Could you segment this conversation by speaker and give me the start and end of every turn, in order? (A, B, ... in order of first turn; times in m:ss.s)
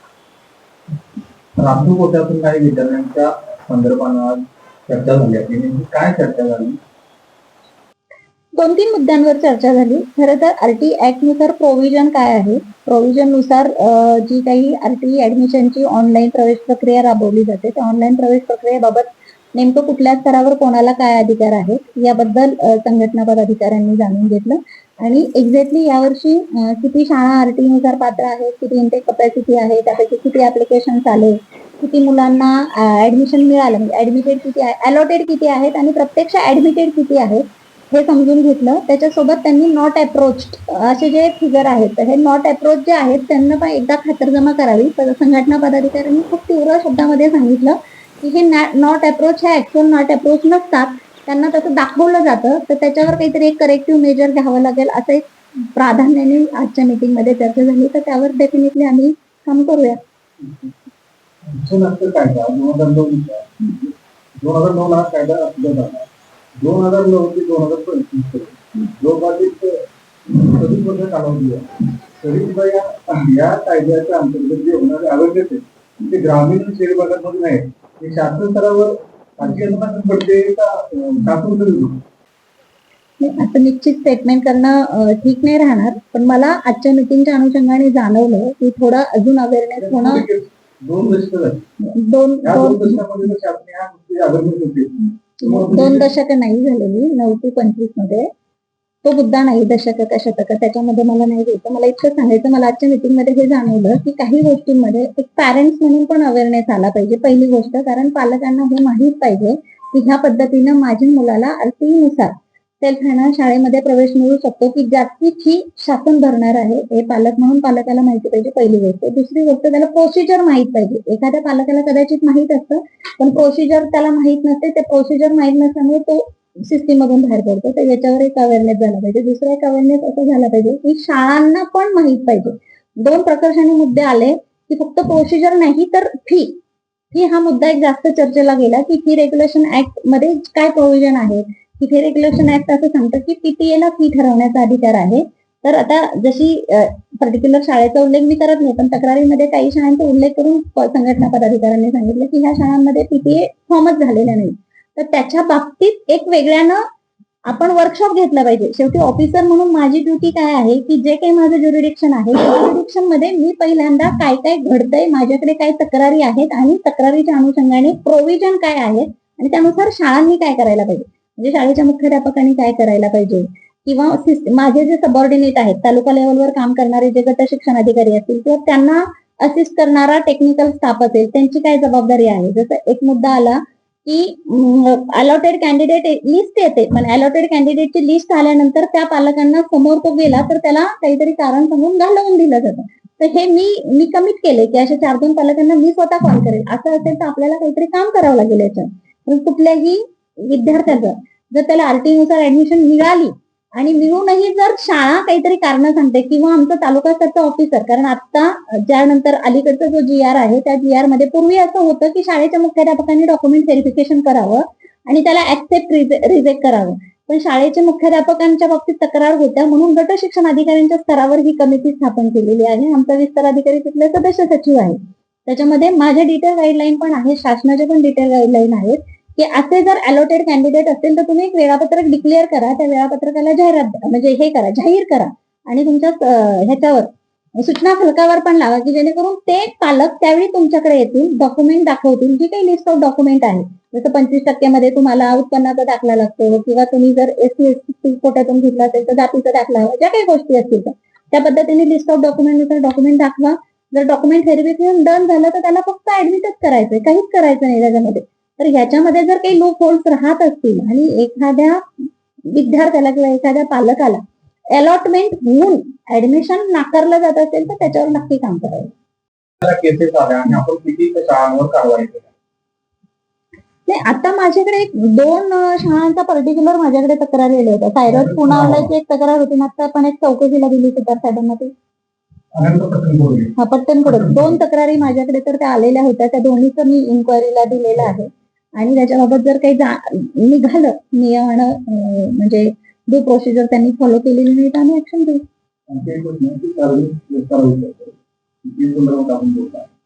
0:01.6-0:06.8 A
0:08.6-1:00.0 B
1:00.4-1:00.7 A
1:01.5-1:03.7 A
1:04.4-1:06.0 A
1:06.6-1:09.7 A
1:10.3-1:11.7 A
1:12.2-1:22.0 A
1:23.2-1:30.3 B
1:29.8-1:31.6 A
1:31.8-1:33.3 B
1:32.4-1:36.1 A
1:35.4-1:38.3 B
1:39.0-2:16.6 B
2:17.1-2:36.8 B
2:37.5-4:21.8 B
4:22.5-4:28.9 B
4:29.6-4:32.3 A
4:33.9-4:41.7 B
4:38.1-4:38.9 A
4:42.5-4:43.5 A
4:43.6-4:55.4 B
4:44.1-4:44.5 A
4:55.9-4:59.9 A